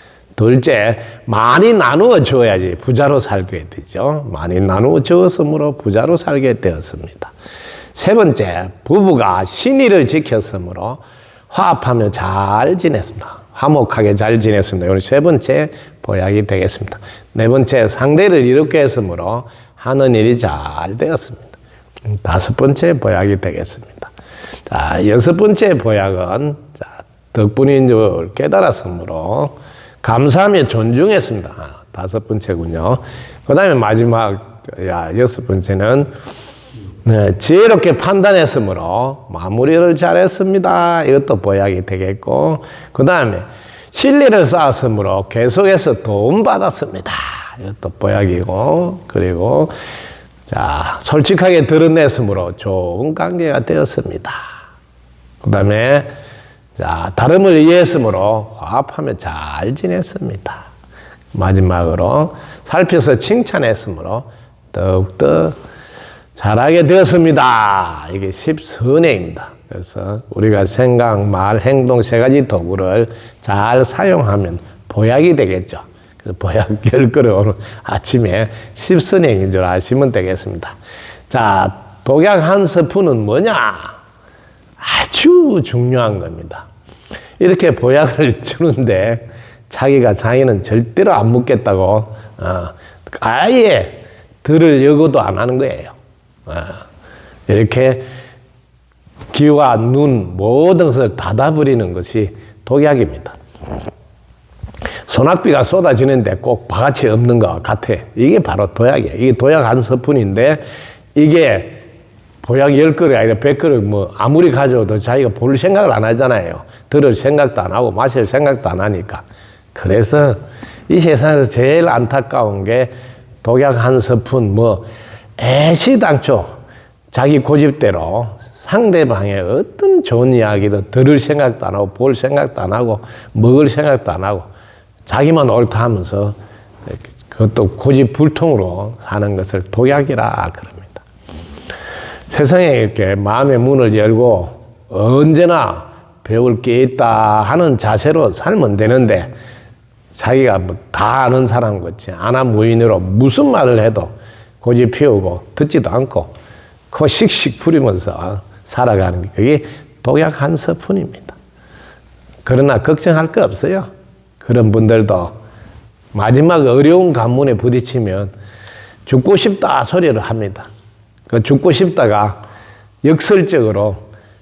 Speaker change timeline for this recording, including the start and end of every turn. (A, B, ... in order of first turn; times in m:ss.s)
0:00.4-0:07.3 A
0:08.0-0:21.6 A
0:22.1-0:24.1 A
0:24.7-0:36.1 A
0:37.0-0:49.7 A
0:50.5-0:54.5 A
0:55.4-0:56.1 A
0:56.8-1:00.7 A
1:01.3-1:05.6 A
1:06.4-1:20.8 A
1:21.3-1:24.0 A
1:24.8-1:26.7 A
1:27.4-1:36.0 A
1:36.5-1:36.8 A
1:37.5-1:38.1 A
1:39.3-1:43.4 A
1:45.1-1:50.6 A
1:51.1-1:51.8 A
1:52.4-2:02.9 A
2:03.4-2:06.6 A
2:07.1-2:14.5 A
2:15.1-2:16.4 A
2:17.2-2:21.0 A
2:22.3-2:29.3 A
2:30.1-2:36.3 A
2:36.9-2:41.4 A
2:42.4-2:43.9 A
2:44.4-2:45.3 A
2:46.1-2:48.3 A
2:49.1-2:50.7 A
2:51.3-2:52.4 A
2:53.0-2:54.0 A